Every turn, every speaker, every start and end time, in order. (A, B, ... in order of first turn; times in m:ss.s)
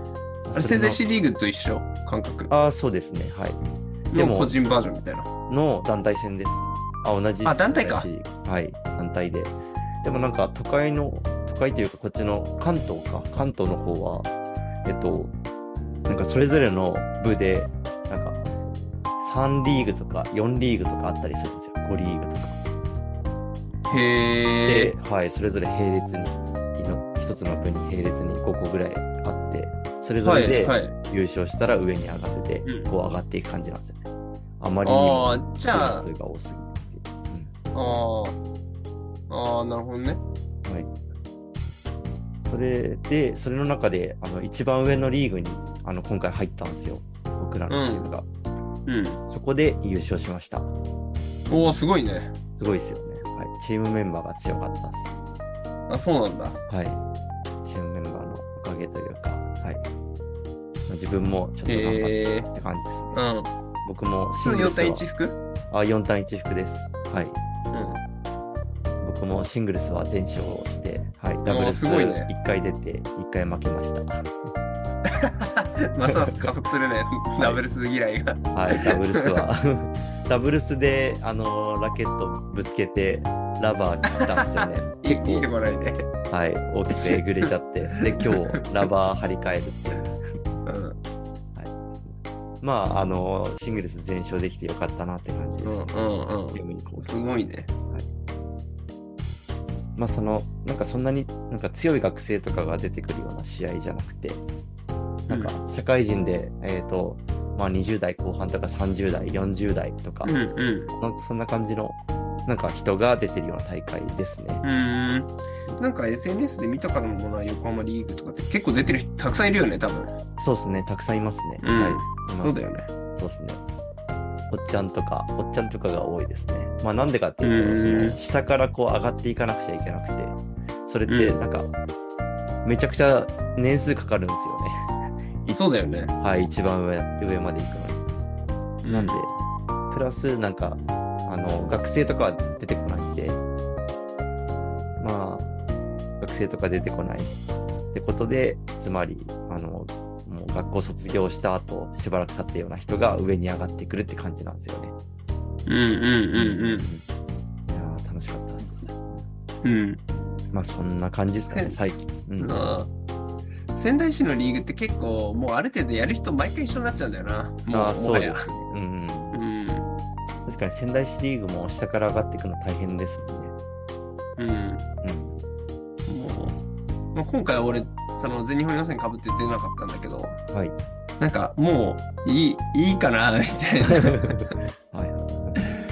0:00.4-0:01.0 A
0:00.5-0:02.5 B
0:02.5-0:03.6 A
0:04.1-0:05.3 B
0:04.1-0:04.5 A
0:05.5-0:14.3 A
0:07.4-0:08.1 B
0:14.8-0:15.3 A
0:16.1-0:18.4 A
0:19.2-0:22.6 A
0:23.9-0:24.9 B
0:24.6-0:34.0 A
0:30.2-0:30.9 B
0:32.6-0:32.9 B
0:34.6-0:37.5 A
0:34.8-0:36.0 B
0:37.7-0:38.4 B
0:39.3-0:40.2 B
0:40.6-0:40.9 A
0:42.4-0:48.2 A
0:47.7-0:48.1 B
0:48.8-0:49.2 B
0:49.3-0:50.7 A
0:51.5-0:52.3 B
0:52.6-0:55.1 A
0:55.9-0:56.6 B
0:56.7-0:57.0 A
0:57.6-0:59.8 A
1:00.9-1:03.2 A
1:01.6-1:02.5 B
1:03.1-1:03.5 B
1:03.8-1:05.0 A
1:04.4-1:05.4 B
1:05.7-1:07.4 A
1:07.7-1:08.0 B
1:09.0-1:14.3 A
1:11.4-1:12.3 B
1:15.2-1:19.4 B
1:16.0-1:16.5 A
1:18.5-1:25.5 A
1:24.1-1:26.1 B
1:26.3-1:30.2 A
1:28.1-1:28.3 B
1:30.6-1:31.0 B
1:31.5-1:37.2 A
1:35.6-1:37.7 B
1:40.0-1:44.4 A
1:45.3-1:45.5 B
1:45.3-1:50.4 A
1:50.2-1:50.9 B
1:50.9-1:54.6 A
1:54.6-2:00.1 B
2:00.4-2:02.6 A
2:01.6-2:02.9 B
2:03.1-2:03.6 A
2:04.5-2:11.7 A
2:07.4-2:08.2 B
2:11.1-2:11.4 B
2:12.6-2:14.9 A
2:15.5-2:16.1 B
2:16.2-2:18.0 A
2:18.8-2:19.2 B
2:18.9-2:19.3 A
2:19.9-2:23.4 A
2:25.0-2:25.5 A
2:26.2-2:27.3 A
2:27.9-2:34.9 A
2:35.7-2:36.8 B
2:36.3-2:37.0 A
2:37.7-2:39.3 A
2:39.6-2:40.0 B
2:40.5-2:42.7 A
2:41.5-2:41.8 B
2:42.4-2:42.9 B
2:43.7-2:48.5 B
2:47.7-2:49.4 A
2:49.3-2:49.9 B
2:50.4-2:53.5 A
2:54.4-2:54.8 B
2:55.0-2:55.4 A
2:56.1-2:56.6 B
2:57.1-3:00.4 B
3:00.5-3:00.8 A
3:01.2-3:04.5 B
3:04.3-3:05.6 A